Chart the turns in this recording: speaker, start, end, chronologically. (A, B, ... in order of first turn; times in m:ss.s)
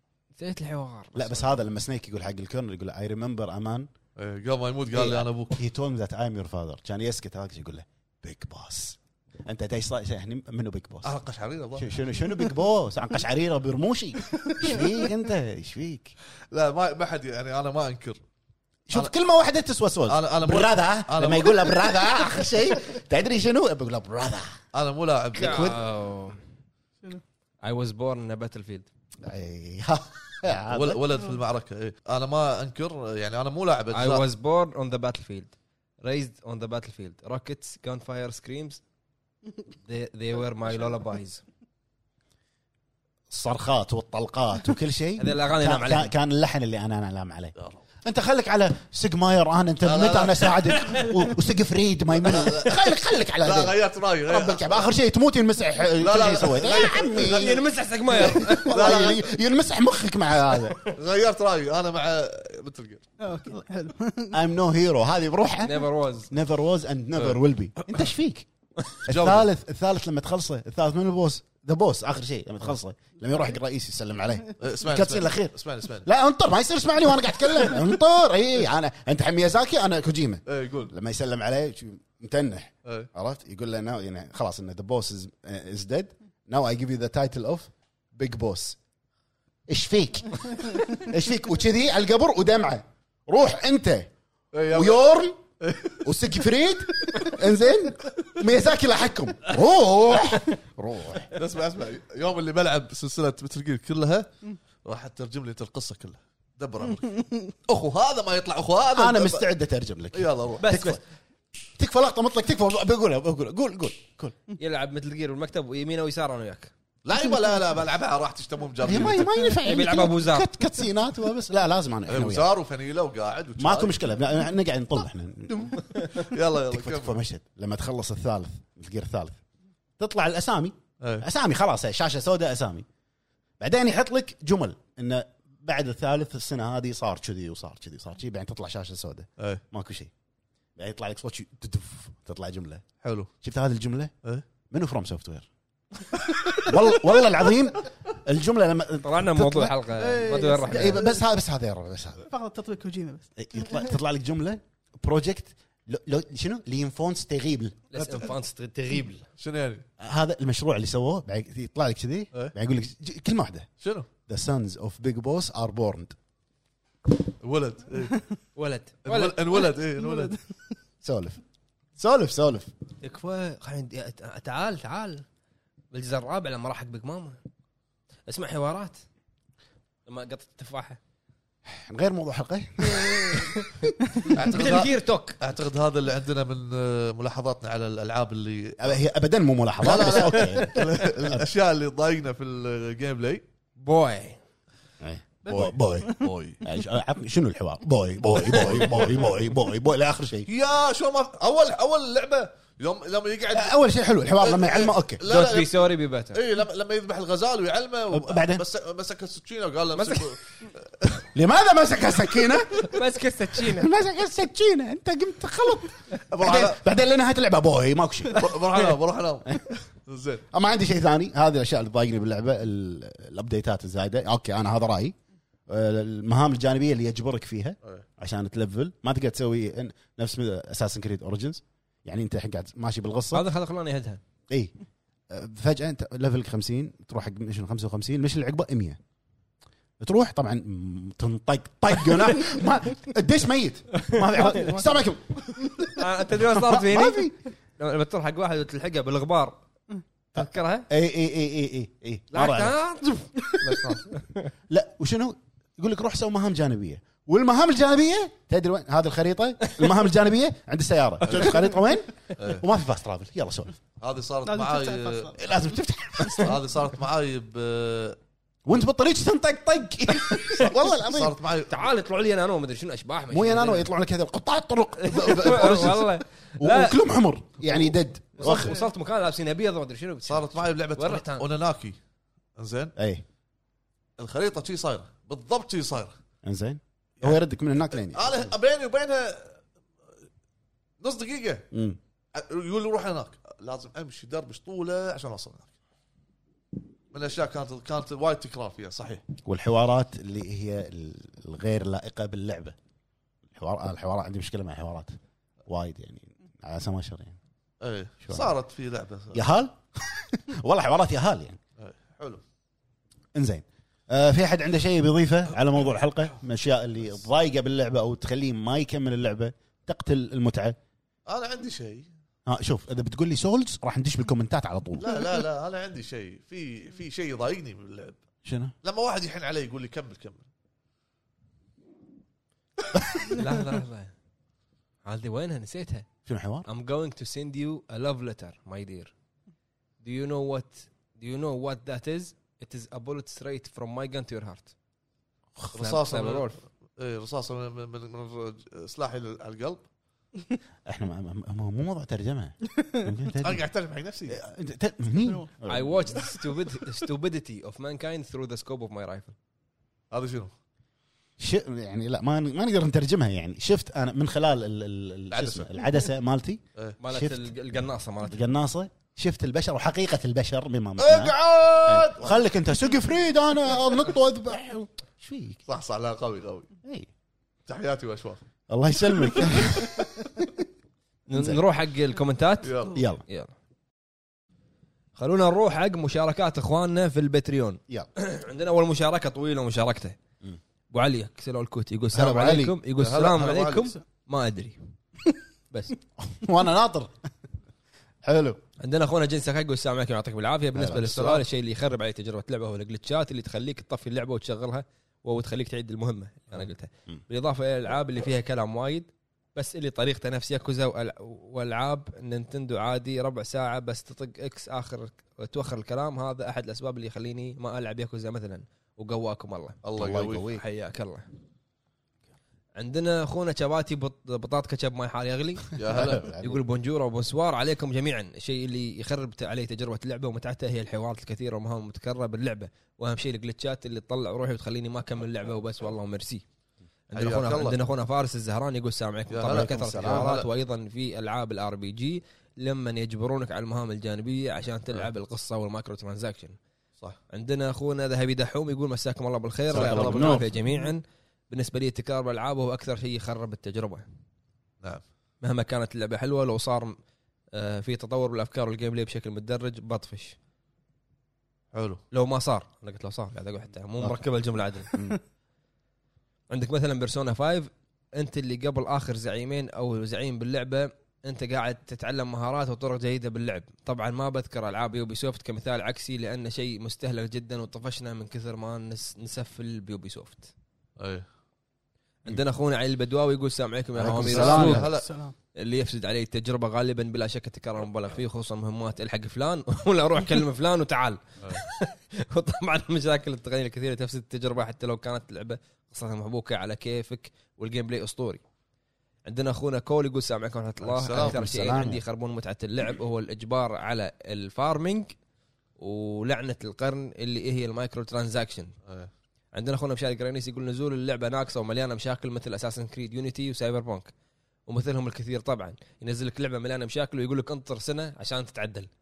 0:00.4-0:01.6 A
0:01.1-0:03.9 B
0:04.2-0:05.6 C
0:05.0-0:11.1 B
0:11.0-0:12.0 C
0:11.8-0:16.1 B
0:14.4-0:14.8 D
0:16.5-0:18.2 C
0:18.9-0:24.6 B
0:20.1-0:21.9 C
0:24.7-0:25.8 C
0:25.4-0:26.4 A
0:27.6-0:28.9 A
0:29.2-0:31.0 B
0:30.7-0:34.2 C
0:33.9-0:38.8 A
0:39.8-0:41.4 A
0:43.3-0:57.6 B
0:45.2-0:46.1 A
0:49.8-0:50.7 C
0:50.7-0:51.1 A
0:52.2-0:54.9 C
0:56.0-0:57.6 C
0:57.2-0:59.1 A
0:58.1-1:00.8 B
0:58.2-0:59.3 C
1:00.9-1:03.1 C
1:03.2-1:04.4 D
1:04.3-1:08.5 B
1:05.6-1:06.3 A
1:09.0-1:28.8 B
1:09.1-1:09.5 C
1:14.6-1:16.1 C
1:20.5-1:20.9 C
1:29.7-1:34.1 B
1:34.5-1:36.2 C
1:34.7-1:35.4 B
1:36.0-1:41.3 B
1:41.3-1:44.3 C
1:44.8-1:49.5 C
1:49.0-1:51.0 B
1:50.1-1:50.7 C
1:50.6-1:51.0 A
1:51.8-1:54.3 B
1:54.6-1:56.7 A
1:57.0-1:59.4 C
1:58.8-2:02.5 B
1:59.6-2:00.5 A
2:02.1-2:04.0 C
2:03.6-2:06.1 B
2:05.9-2:07.2 C
2:06.7-2:09.4 B
2:10.0-2:12.8 B
2:11.0-2:11.2 C
2:13.6-2:20.1 B
2:20.8-2:22.8 B
2:23.0-2:23.3 C
2:23.4-2:24.1 B
2:24.7-2:25.5 B
2:26.5-2:29.8 B
2:29.0-2:31.0 A
2:29.9-2:31.2 D
2:30.6-2:32.2 B
2:32.2-2:33.7 D
2:33.4-2:37.8 B
2:37.9-2:39.2 A
2:38.0-2:38.2 C
2:39.4-2:39.8 C
2:40.0-2:43.7 B
2:43.8-2:44.1 C
2:44.3-2:46.1 B
2:47.4-2:48.2 C
2:48.5-2:49.4 A
2:49.0-2:50.4 C
2:49.9-2:50.4 D
2:51.0-2:51.4 B
2:52.0-2:52.7 B
2:53.0-2:55.2 A
2:55.9-2:57.4 A
2:58.3-2:59.0 A
3:00.0-3:01.0 A
3:01.6-3:03.7 B
3:04.2-3:05.4 A
3:04.3-3:09.0 C
3:08.8-3:11.4 B
3:09.8-3:13.4 C
3:13.8-3:14.4 A
3:15.0-3:20.5 B
3:15.4-3:16.3 D
3:15.5-3:16.6 C
3:18.3-3:19.3 C
3:20.5-3:23.8 C
3:23.5-3:25.2 B
3:24.4-3:31.2 C
3:25.2-3:26.4 A
3:28.1-3:28.6 B
3:30.0-3:30.2 A
3:31.3-3:38.5 B
3:32.8-3:33.9 A
3:36.3-3:36.8 C
3:38.3-3:40.4 C
3:40.5-3:45.1 B
3:45.7-3:53.4 B
3:53.3-3:54.2 A
3:55.3-3:59.0 B
4:00.0-4:07.4 B
4:04.3-4:05.0 D
4:05.5-4:05.9 D
4:05.9-4:09.6 A
4:10.3-4:10.9 A
4:10.4-4:12.8 B
4:12.3-4:13.4 A
4:13.6-4:14.1 C
4:14.2-4:14.4 A
4:14.7-4:23.8 B
4:21.2-4:21.5 C
4:22.4-4:22.6 C
4:24.0-4:25.6 C
4:24.4-4:25.3 D
4:25.4-4:26.6 B
4:26.2-4:28.2 C
4:28.6-4:31.4 B
4:30.6-4:31.8 C
4:31.7-4:33.9 A
4:33.3-4:38.8 B
4:35.0-4:37.0 A
4:38.4-4:41.4 A
4:40.3-4:42.0 C
4:42.6-4:42.9 C
4:43.0-4:43.2 B
4:44.2-4:46.1 C
4:46.4-4:48.5 B
4:47.9-4:49.6 C
4:51.0-4:51.7 C
4:51.7-4:52.0 B
4:52.3-4:55.7 C
4:57.1-4:59.2 C
4:59.4-5:02.7 B
5:03.5-5:05.1 B
5:05.7-5:07.4 B
5:07.8-5:09.4 C
5:08.2-5:08.5 B
5:09.3-5:11.6 B
5:11.8-5:12.4 C
5:13.3-5:20.8 B
5:21.2-5:22.1 C
5:22.4-5:25.3 B
5:25.0-5:28.2 C
5:28.4-5:28.7 B
5:28.8-5:30.4 C
5:33.2-5:34.1 A
5:35.0-5:36.1 A
5:36.2-5:36.6 B
5:36.6-5:39.1 A
5:40.0-5:44.7 A
5:45.7-5:46.6 A
5:45.7-5:49.8 C
5:50.9-5:53.6 B
5:53.4-5:54.4 C
5:54.3-5:56.2 B
5:55.2-5:55.5 D
5:55.6-5:59.3 A
6:00.1-6:00.5 C
6:01.4-6:07.5 B
6:05.3-6:05.8 C
6:07.0-6:08.4 A
6:08.2-6:15.6 B
6:11.0-6:12.4 C
6:15.7-6:16.7 C
6:16.8-6:17.1 B
6:17.7-6:18.4 C
6:18.7-6:20.6 B
6:19.4-6:20.0 C
6:21.3-6:23.5 A
6:21.3-6:21.6 B
6:22.6-6:23.0 C
6:22.9-6:23.2 B
6:25.2-6:30.2 A
6:30.9-6:34.8 A
6:32.1-6:32.8 B
6:33.0-6:33.9 C
6:36.2-6:37.1 B
6:38.2-6:38.6 B
6:38.8-6:59.8 A
6:40.7-6:41.1 B
6:41.0-6:41.4 C
6:59.8-7:00.4 C
7:00.0-7:00.6 B
7:00.5-7:01.2 A
7:02.8-7:16.4 A
7:05.8-7:06.3 C
7:05.9-7:06.6 B
7:17.1-7:26.6 A
7:17.1-7:17.8 C
7:19.3-7:20.5 C
7:19.5-7:20.3 B
7:27.3-7:34.1 A
7:29.7-7:30.5 C
7:29.7-7:30.4 B
7:35.4-7:37.0 A
7:37.5-7:40.4 A
7:41.7-7:42.0 C
7:42.1-7:44.9 A
7:44.9-7:45.2 B
7:46.5-8:00.5 A
8:01.0-8:01.2 C
8:02.2-8:04.9 A
8:03.9-8:04.9 B
8:04.2-8:05.1 C
8:04.6-8:05.3 D
8:05.5-8:18.4 A
8:19.2-8:25.1 A
8:20.8-8:21.4 C
8:21.2-8:22.0 B
8:25.8-8:28.7 A
8:28.8-8:29.1 C
8:29.5-8:34.1 A
8:34.7-8:38.9 A